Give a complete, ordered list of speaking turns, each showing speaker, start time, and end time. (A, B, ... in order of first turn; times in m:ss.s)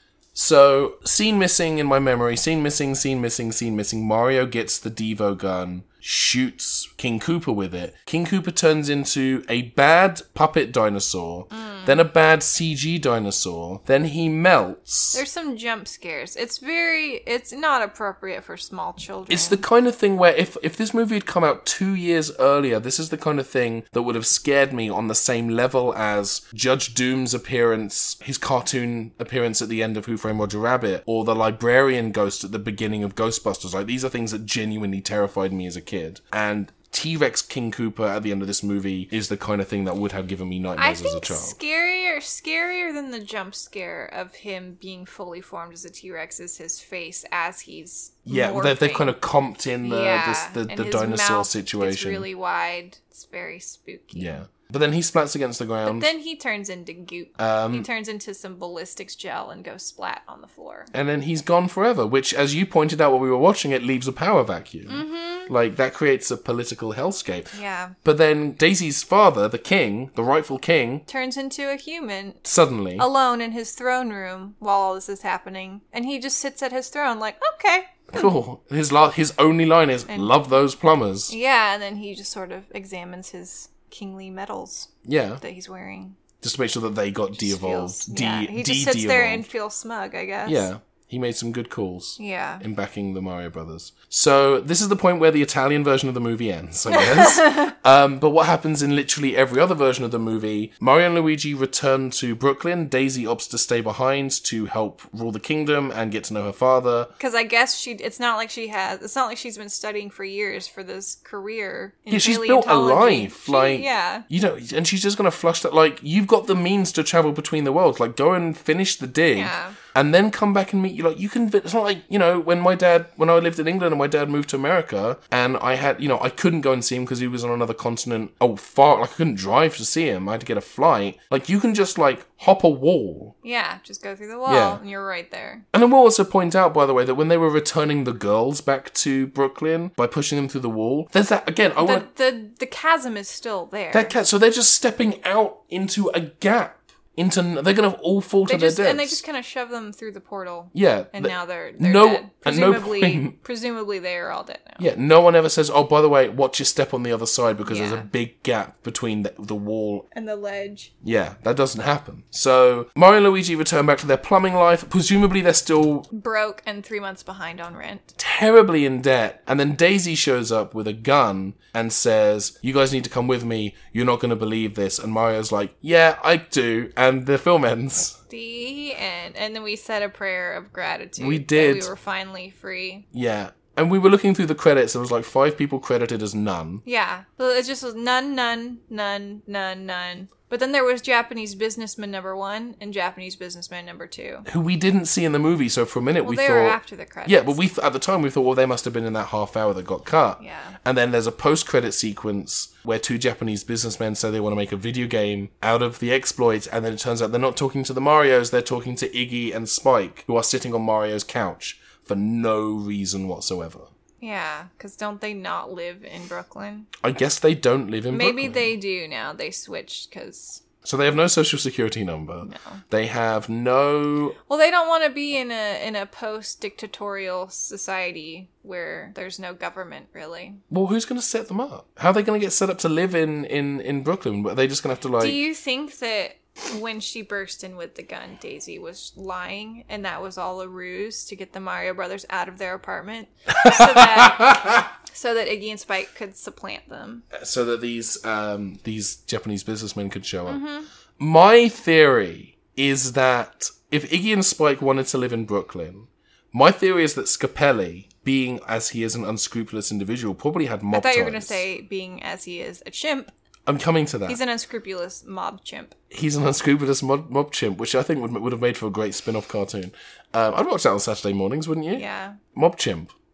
0:00.4-0:15.2 A
0:11.5-0:12.0 B
0:15.1-0:19.6 B
0:19.3-0:41.6 A
0:40.8-0:49.2 B
0:48.3-0:52.3 A
0:49.8-0:54.4 B
0:54.1-0:56.1 A
0:55.8-1:00.9 B
0:57.4-0:57.9 A
1:00.9-1:11.0 A
1:04.9-1:05.5 B
1:07.5-1:08.0 B
1:11.1-1:18.3 B
1:12.4-1:13.1 A
1:18.1-1:21.3 A
1:20.1-1:20.3 B
1:21.3-1:26.2 B
1:25.1-1:25.4 A
1:26.4-1:29.5 A
1:27.4-1:30.7 B
1:30.4-1:47.1 A
1:32.2-1:32.6 B
1:36.9-1:37.7 B
1:47.2-1:54.3 B
1:52.1-2:13.4 A
1:59.3-1:59.8 B
2:13.4-2:15.7 B
2:14.5-2:14.8 A
2:15.7-2:22.1 A
2:21.8-2:24.2 B
2:23.9-2:29.2 A
2:28.4-2:34.9 B
2:30.7-2:33.4 A
2:34.8-2:40.1 A
2:37.6-2:38.1 B
2:40.1-2:40.9 B
2:41.0-2:46.1 A
2:46.1-2:48.2 B
2:48.2-2:58.2 A
2:58.3-3:03.1 B
3:01.2-3:01.9 A
3:03.1-3:06.8 A
3:06.8-3:14.5 B
3:14.5-3:33.9 A
3:16.2-3:17.6 B
3:20.4-3:20.8 B
3:34.2-3:36.9 B
3:37.0-3:38.7 A
3:38.1-3:40.6 B
3:40.8-3:44.4 A
3:42.4-3:42.8 B
3:44.5-3:50.6 B
3:50.7-3:55.4 A
3:55.2-4:07.3 B
4:03.6-4:04.9 A
4:07.3-4:10.6 A
4:10.5-4:10.9 B
4:11.2-4:21.6 A
4:20.9-4:23.3 B
4:23.7-4:24.4 A
4:24.3-4:26.0 B
4:26.1-4:33.1 A
4:31.9-4:32.4 B